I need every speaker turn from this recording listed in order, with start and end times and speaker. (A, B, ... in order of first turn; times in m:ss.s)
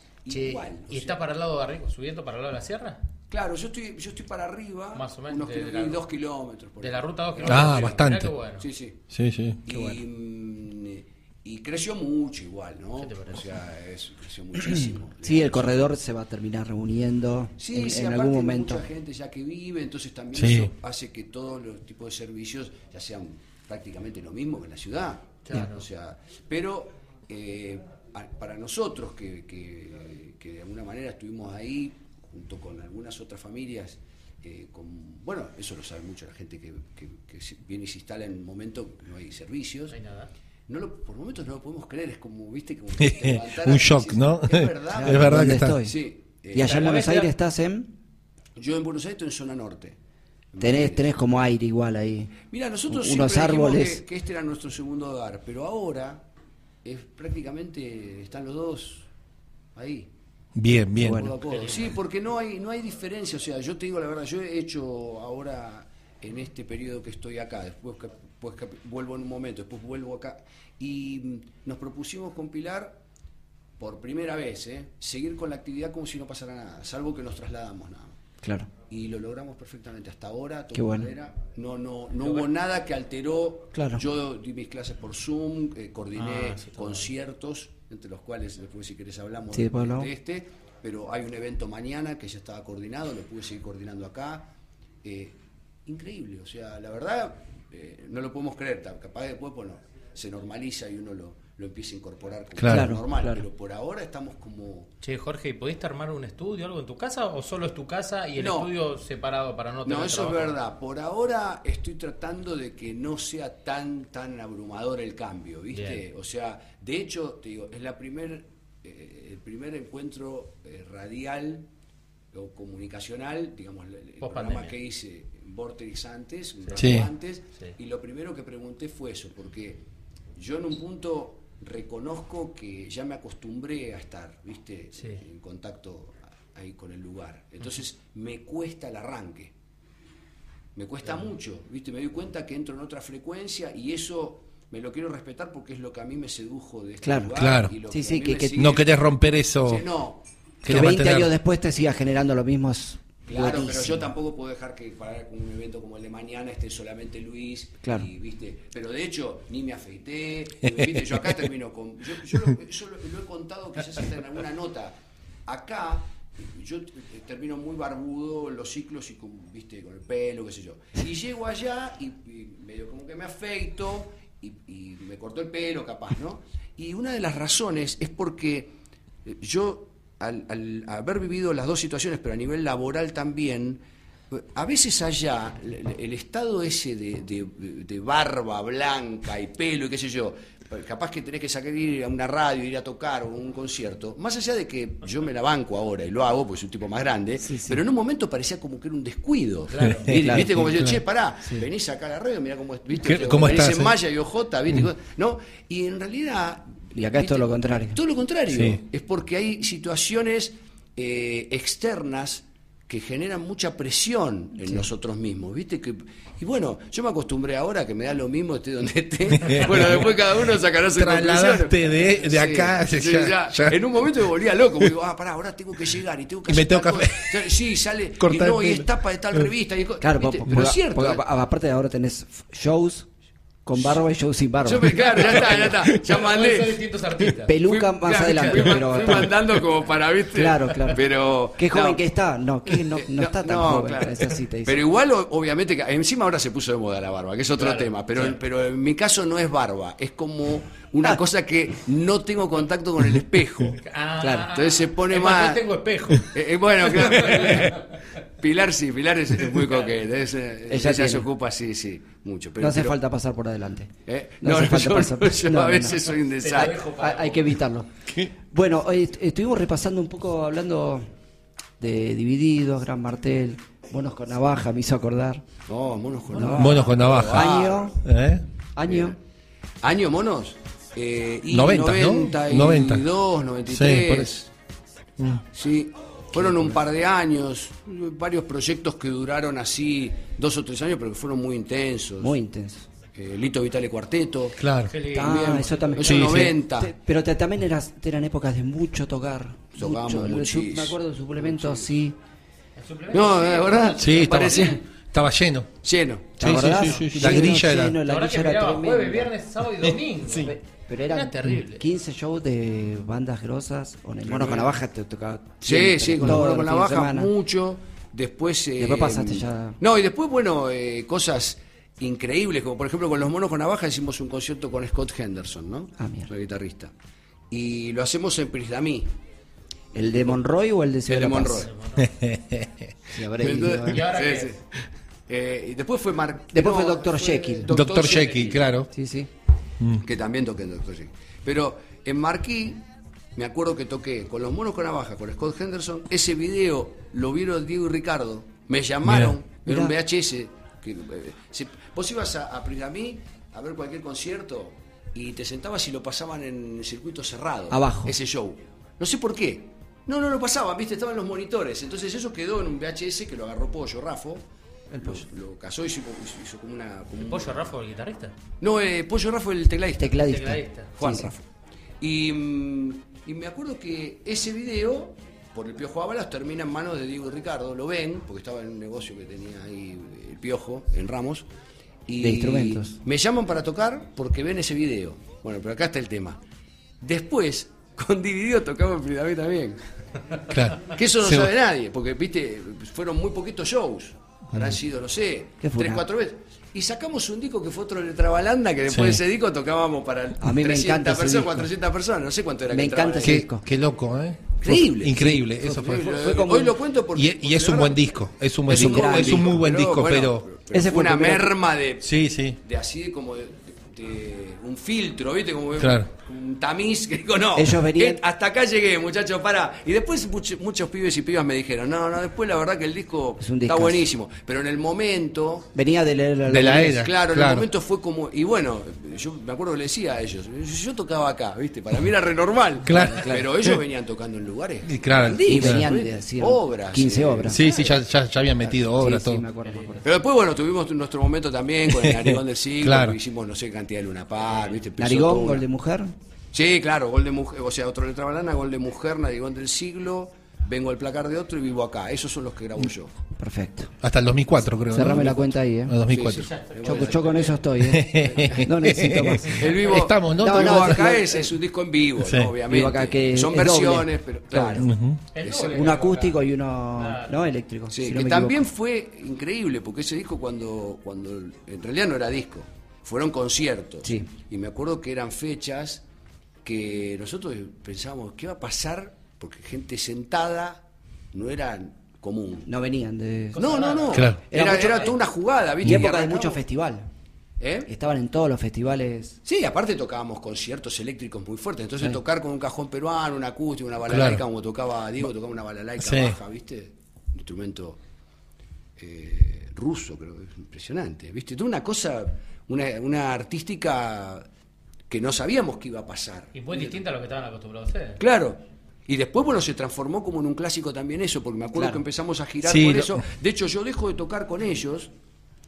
0:00.2-0:01.2 A
0:00.3-0:03.0 B
0:03.3-0:08.0 A
0:04.9-0:06.0 B
0:06.8-0:08.7 B
0:07.5-0:08.4 C
0:08.6-0:09.0 A
0:09.1-0:09.6 C
0:09.6-0:16.0 A
0:09.7-0:10.0 D
0:13.0-0:13.5 B
0:14.7-0:18.8 D
0:17.6-0:40.0 A
0:20.4-0:20.7 C
0:25.4-0:25.8 B
0:39.9-0:40.3 B
0:40.7-0:46.9 A
0:43.0-0:45.8 C
0:44.9-0:46.0 D
0:46.5-0:47.9 D
0:46.6-0:47.3 B
0:48.6-0:50.0 A
0:50.5-0:51.2 A
0:50.6-0:52.4 D
0:52.5-0:56.2 A
0:52.9-0:54.0 D
0:56.8-0:59.1 A
0:59.8-1:00.1 A
1:00.6-1:01.2 C
1:01.0-1:01.3 D
1:01.0-1:13.0 A
1:01.4-1:02.0 B
1:13.8-1:18.2 A
1:18.4-1:18.7 D
1:18.9-1:34.5 A
1:20.7-1:21.1 D
1:23.7-1:24.0 D
1:26.2-1:27.1 B
1:29.5-1:30.1 D
1:35.0-1:44.9 A
1:42.6-1:42.9 C
1:42.7-1:43.4 D
1:45.0-1:50.6 B
1:48.4-1:48.7 A
1:49.8-2:01.7 A
1:55.7-1:56.0 B
2:02.3-2:09.8 A
2:04.2-2:04.8 B
2:06.8-2:07.1 C
2:10.4-2:19.5 A
2:20.8-2:28.9 A
2:27.0-2:28.7 D
2:27.4-2:27.7 C
2:28.6-2:29.8 C
2:29.6-2:30.2 A
2:30.6-2:31.3 C
2:30.7-2:34.1 D
2:33.3-2:58.7 A
2:37.8-2:38.1 D
2:59.2-3:51.2 A
3:17.4-3:17.8 D
3:19.7-3:20.1 B
3:20.1-3:21.0 C
3:20.1-3:20.7 D
3:23.0-3:24.0 C
3:26.9-3:28.0 D
3:28.5-3:28.8 C
3:39.5-3:40.0 C
3:41.0-3:43.8 C
3:46.5-3:47.3 C
3:48.2-3:48.9 C
3:50.0-3:53.1 D
3:53.7-3:55.2 D
3:54.6-3:56.8 A
3:55.2-3:57.7 B
3:57.5-3:59.3 D
3:57.7-4:02.0 A
4:00.3-4:01.0 D
4:01.6-4:04.8 D
4:02.7-4:15.7 A
4:07.6-4:08.4 B
4:13.8-4:16.4 B
4:14.2-4:14.5 D
4:16.2-4:23.0 A
4:16.9-4:17.9 B
4:20.7-4:21.3 D
4:22.6-4:23.9 D
4:24.1-4:26.9 A
4:24.4-4:26.0 D
4:26.4-4:27.6 B
4:27.0-4:27.9 D
4:28.5-4:31.1 D
4:31.8-4:35.4 D
4:35.7-4:37.9 A
4:36.3-4:38.0 D
4:36.5-4:37.5 C
4:38.0-4:38.4 C
4:38.8-4:39.2 D
4:39.8-4:44.5 A
4:41.5-4:43.0 C
4:43.7-4:44.3 C
4:45.5-4:52.4 A
4:46.4-4:46.8 D
4:52.2-4:52.9 D
4:53.2-4:54.6 A
4:54.6-4:54.9 C
4:54.9-4:56.1 B
4:55.1-5:02.2 D
4:55.1-4:56.9 A
4:56.0-4:56.6 C
4:59.8-5:01.9 A
5:02.8-5:04.8 B
5:03.1-5:04.8 A
5:04.0-5:05.7 C
5:05.8-5:06.5 A
5:06.4-5:09.3 D
5:06.4-5:08.0 C
5:06.6-5:11.9 B
5:10.4-5:17.3 D
5:14.3-5:14.7 A
5:15.6-5:26.9 A
5:18.8-5:19.8 D
5:26.0-5:26.3 D
5:27.5-5:29.1 A
5:29.9-5:31.7 D
5:30.0-5:30.4 A
5:31.1-5:31.7 A
5:31.6-5:32.1 B
5:32.0-5:32.8 C
5:33.1-5:34.1 D
5:33.4-5:34.6 A
5:33.8-5:34.6 B
5:35.3-5:38.6 A
5:36.5-5:37.7 D
5:37.7-5:38.9 C
5:38.0-5:38.7 B
5:38.9-5:39.3 D
5:40.0-5:42.8 A
5:43.4-6:04.4 A
5:49.0-5:49.3 C
5:49.7-5:49.9 D
5:57.7-5:58.2 D
6:04.9-6:05.2 D
6:05.0-6:07.7 A
6:07.2-6:08.4 B
6:08.6-6:10.3 A
6:10.0-6:11.4 D
6:10.2-6:11.0 B
6:11.0-6:11.4 A
6:12.0-6:21.5 A
6:22.1-6:26.4 A
6:22.2-6:23.0 D
6:27.0-6:29.8 A
6:30.5-6:31.5 C
6:30.8-6:43.5 A
6:35.6-6:36.0 D
6:38.9-6:39.2 C
6:40.4-6:41.7 D
6:42.7-6:43.6 D
6:43.2-6:46.2 C
6:44.6-6:48.1 A
6:45.1-6:46.8 D
6:47.2-6:50.4 C
6:48.7-7:05.7 A
6:48.7-6:49.5 D
6:50.7-6:51.5 D
6:52.0-6:52.6 C
6:55.8-6:56.1 C
6:57.6-6:58.2 D
7:03.4-7:04.1 D
7:05.7-7:07.0 D
7:06.5-7:07.7 C
7:06.8-7:18.0 A
7:12.8-7:13.8 C
7:13.0-7:13.4 D
7:14.9-7:15.8 C
7:15.4-7:17.6 D
7:17.5-7:19.4 C
7:18.6-7:20.1 D
7:19.6-7:20.0 B
7:20.0-7:25.6 A
7:22.0-7:23.2 C
7:25.0-7:26.1 D
7:26.5-7:33.1 A
7:33.4-7:33.9 D
7:34.0-7:36.5 C
7:34.9-7:36.0 D
7:35.0-7:35.4 A
7:36.1-7:37.5 A
7:36.4-7:37.6 B
7:36.8-7:39.7 D
7:37.8-7:41.0 C
7:38.2-7:38.7 A
7:39.5-7:45.8 A
7:40.4-7:41.5 D
7:42.2-7:42.5 C
7:42.7-7:44.9 D
7:44.8-7:45.2 C
7:45.3-7:46.4 B
7:45.7-7:48.6 D
7:47.0-7:47.4 B
7:47.9-7:56.0 A
7:54.0-7:54.3 D
7:56.6-8:02.7 A
8:02.7-8:03.7 D
8:03.6-8:05.1 B
8:03.6-8:06.6 A
8:04.1-8:04.4 C
8:04.5-8:05.2 D
8:05.8-8:07.1 D
8:07.6-8:07.9 A
8:07.9-8:09.4 D
8:09.4-8:18.0 A
8:14.1-8:14.4 C
8:16.0-8:16.4 C
8:19.0-8:24.5 A
8:25.1-8:27.0 A
8:26.5-8:28.2 B
8:28.2-8:35.1 A
8:32.6-8:33.2 C